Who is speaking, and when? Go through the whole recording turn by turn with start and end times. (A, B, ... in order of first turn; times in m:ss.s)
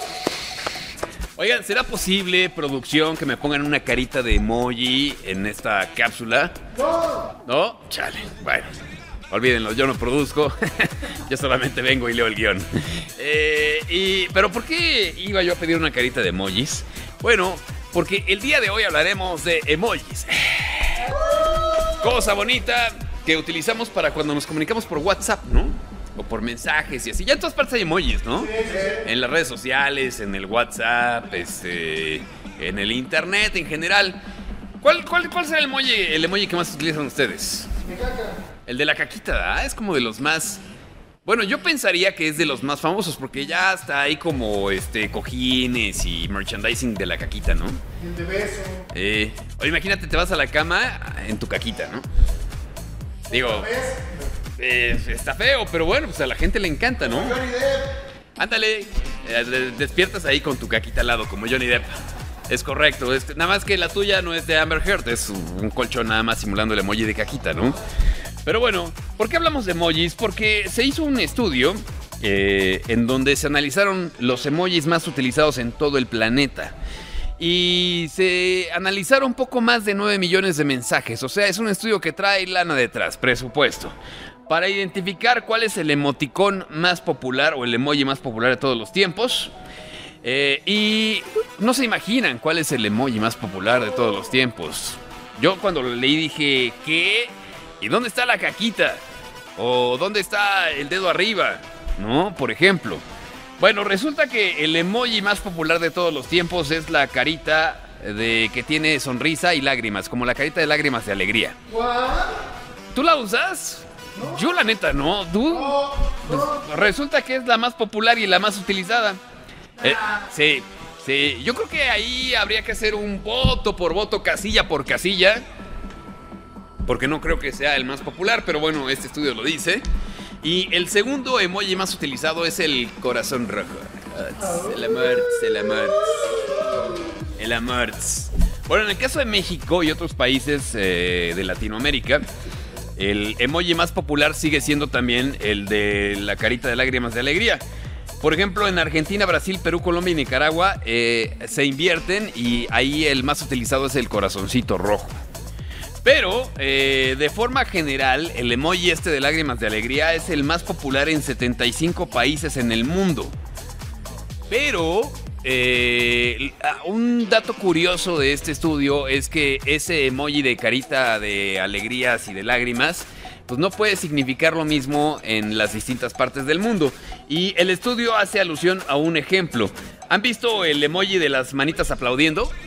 0:01.4-0:06.5 A
0:07.4-0:08.8 A
0:09.3-0:34.2 A
0:34.8-0:37.8 A
0:37.8-0:38.3 B
0:38.6-0:40.6 A
0:41.2-0:47.8 A
0:48.0-0:48.8 B
0:48.9-0:52.1 A
0:53.3-0:53.7 A
0:53.7-0:54.1 B
0:54.6-0:57.8 A
0:58.4-1:02.0 A
1:02.5-1:07.8 A
1:08.4-1:16.7 A
1:17.4-1:23.9 A
1:24.5-1:29.5 A
1:30.2-1:39.0 A
1:39.6-1:43.0 A
1:43.6-1:51.6 A
1:51.7-1:52.3 B
1:52.9-1:59.2 A
1:59.8-2:05.4 A
2:06.8-2:09.8 A
2:10.4-2:16.1 A
2:17.4-2:22.2 A
2:23.0-2:27.6 A
2:28.2-2:35.2 A
2:36.0-2:43.3 A
2:44.5-3:02.5 A